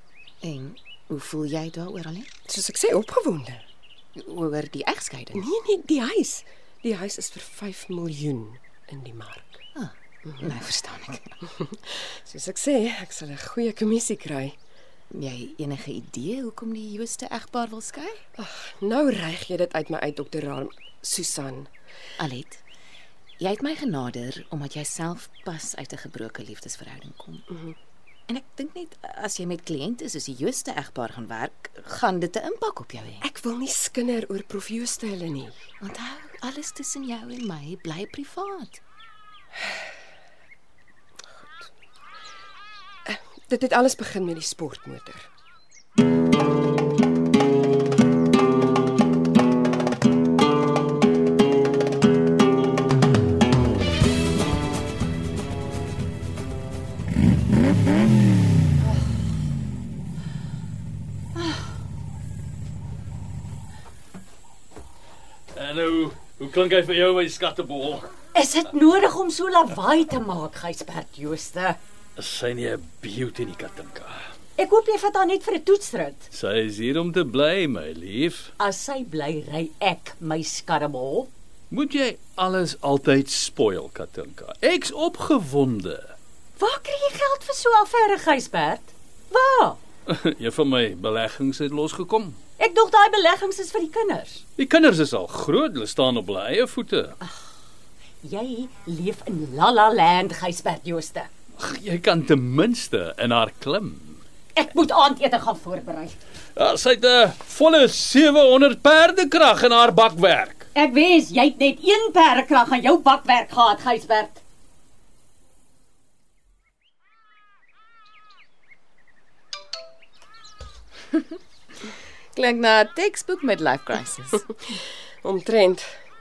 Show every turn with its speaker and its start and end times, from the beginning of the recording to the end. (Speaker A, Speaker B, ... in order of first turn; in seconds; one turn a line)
Speaker A: 0.4-2.3
Speaker B: 2.5-3.6
Speaker A: 4.2-5.5
Speaker B: 5.3-9.6
Speaker A: 9.8-11.4
Speaker B: 10.2-10.5
Speaker B: 11.5-14.6
Speaker A: 15.1-18.2
Speaker B: 18.4-21.7
Speaker A: 22.2-22.6
Speaker A: 23.4-27.5
Speaker B: 27.5-27.8
Speaker A: 28.3-33.2
Speaker B: 33.2-35.6
Speaker A: 35.8-38.8
Speaker B: 41.3-41.7
Speaker B: 43.0-45.3
Speaker C: 65.5-68.1
Speaker D: 68.3-71.8
Speaker C: 72.2-74.2
Speaker D: 74.6-76.3
Speaker C: 76.3-78.5
Speaker D: 78.6-81.3
Speaker C: 81.7-86.2
Speaker D: 86.6-89.8
Speaker C: 90.1-92.4
Speaker D: 92.6-94.4
Speaker C: 94.6-97.2
Speaker D: 98.2-101.3
Speaker C: 101.6-104.2
Speaker D: 104.5-106.2
Speaker C: 106.6-110.7
Speaker D: 110.8-114.4
Speaker A: 122.3-124.5
Speaker B: 124.7-125.9